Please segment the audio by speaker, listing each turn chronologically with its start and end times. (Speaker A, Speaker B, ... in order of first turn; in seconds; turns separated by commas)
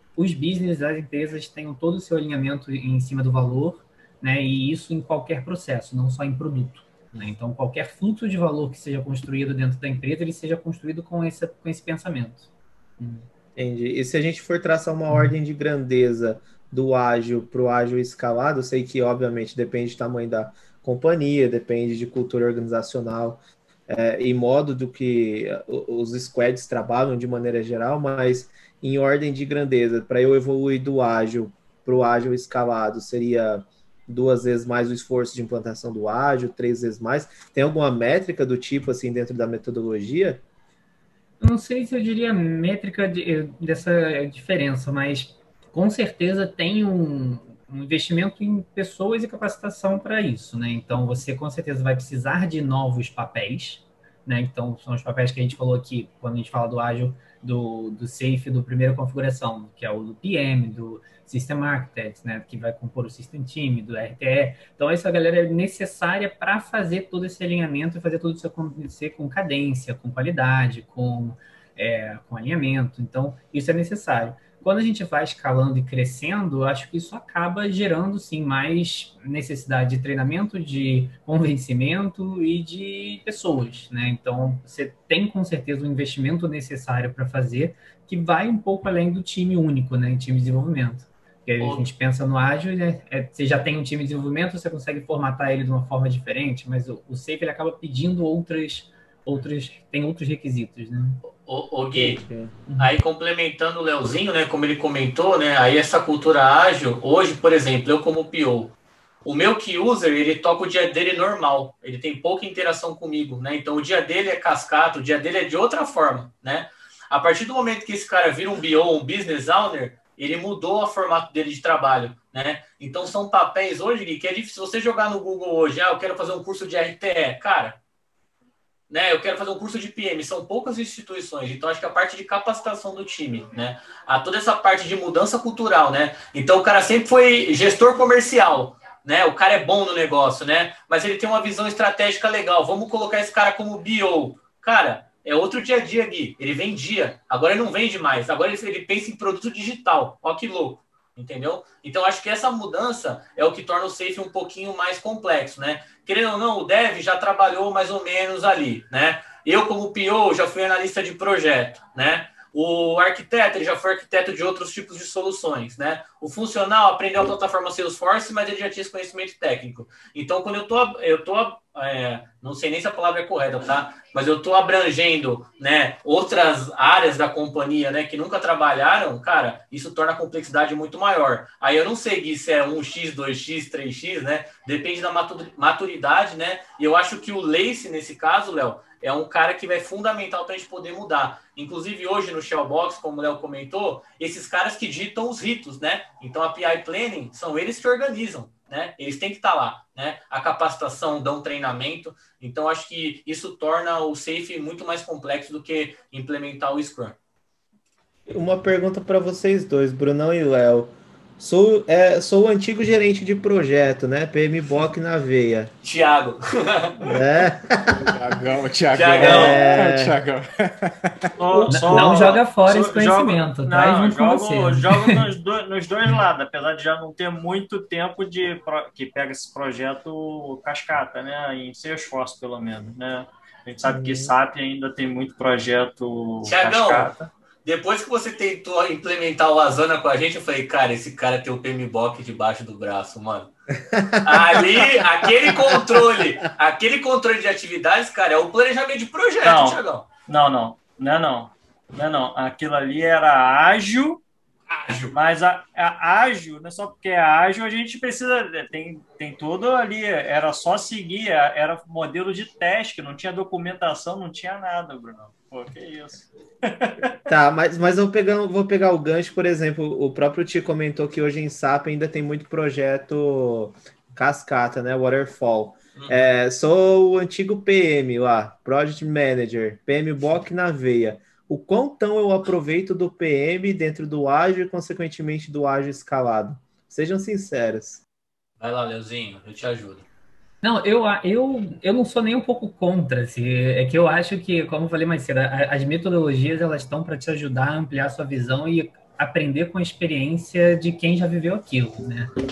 Speaker A: 0.2-13.3, Speaker B: 13.6-40.4, Speaker A: 15.1-15.3, Speaker A: 41.4-101.2, Speaker C: 91.6-91.9, Speaker C: 101.4-102.2, Speaker B: 101.9-102.6, Speaker A: 102.7-102.9, Speaker C: 102.8-127.8, Speaker C: 128.9-207.2, Speaker B: 208.3-215.7, Speaker C: 215.8-217.5, Speaker B: 217.0-218.2, Speaker D: 218.0-222.2, Speaker C: 218.9-219.6, Speaker B: 219.2-220.2, Speaker E: 221.4-237.3, Speaker A: 221.7-225.2, Speaker B: 233.9-234.3, Speaker C: 236.4-237.1, Speaker C: 237.7-243.5, Speaker B: 243.9-244.7, Speaker C: 244.2-250.1, Speaker E: 249.4-254.2, Speaker C: 254.7-255.1, Speaker E: 255.1-267.3, Speaker B: 267.3-288.0, Speaker C: 288.6-290.1, Speaker A: 290.6-302.3